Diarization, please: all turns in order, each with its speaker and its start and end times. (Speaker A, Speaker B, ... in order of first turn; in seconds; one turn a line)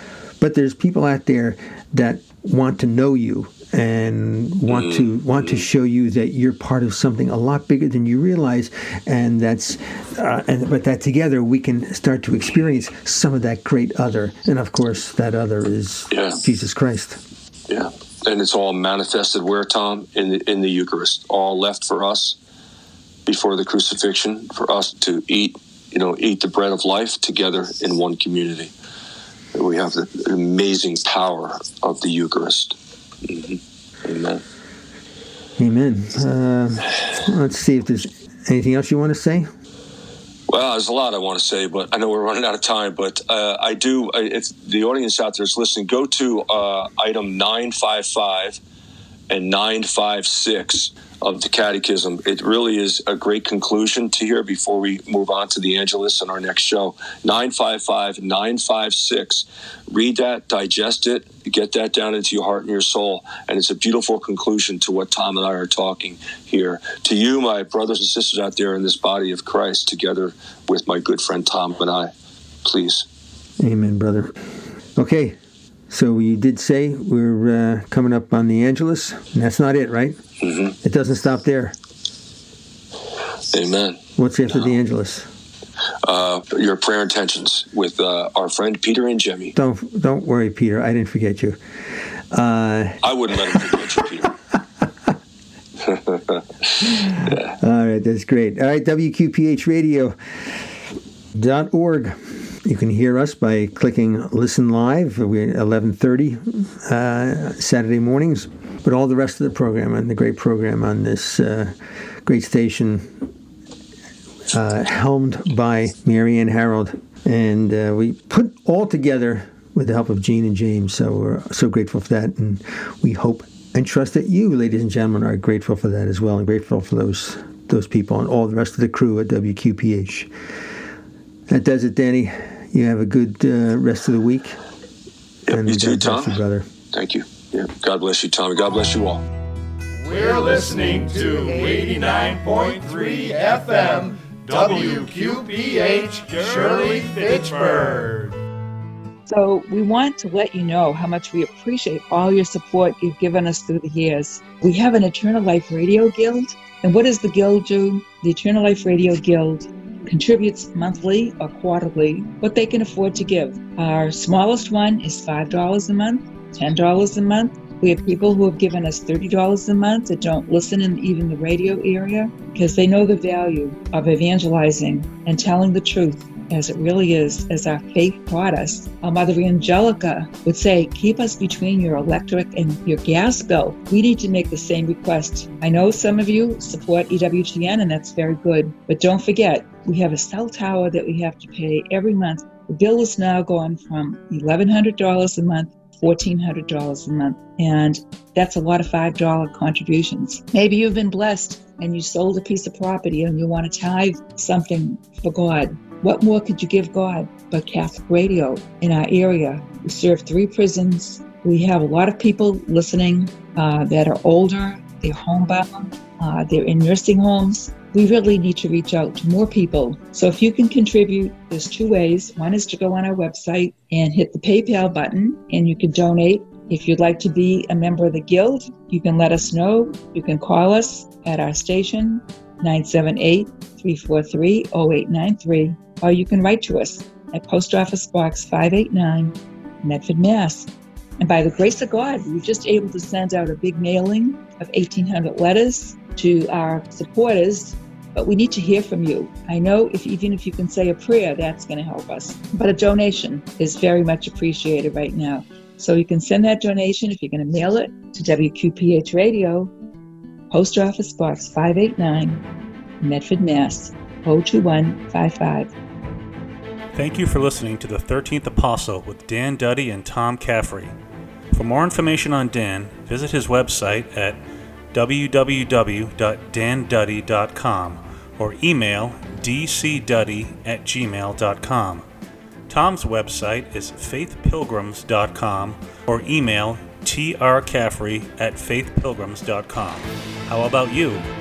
Speaker A: 0.4-17.2
Speaker B: 4.7-5.6
Speaker B: 16.1-16.4
Speaker B: 17.7-22.4
Speaker B: 23.2-28.7
Speaker B: 29.5-34.4
Speaker A: 35.6-39.5
Speaker B: 40.5-48.6
Speaker B: 49.3-72.1
Speaker B: 72.6-73.0
Speaker A: 73.6-74.3
Speaker A: 74.9-75.3
Speaker A: 75.9-80.2
Speaker B: 80.4-80.7
Speaker A: 80.8-81.8
Speaker B: 83.5-84.0
Speaker A: 84.2-85.3
Speaker B: 86.0-89.5
Speaker A: 89.5-91.6
Speaker A: 92.3-93.8
Speaker B: 93.0-94.3
Speaker B: 95.8-96.3
Speaker A: 96.8-100.2
Speaker A: 101.3-113.3
Speaker A: 114.5-130.3
Speaker A: 131.5-134.6
Speaker B: 135.5-136.3
Speaker A: 135.5-136.7
Speaker B: 136.9-139.2
Speaker C: 140.0-148.4
Speaker D: 149.3-259.7
Speaker D: 260.5-262.4
Speaker D: 263.0-265.7
Speaker E: 266.9-270.9
Speaker E: 271.5-274.4
Speaker E: 274.9-282.0
Speaker E: 282.7-291.2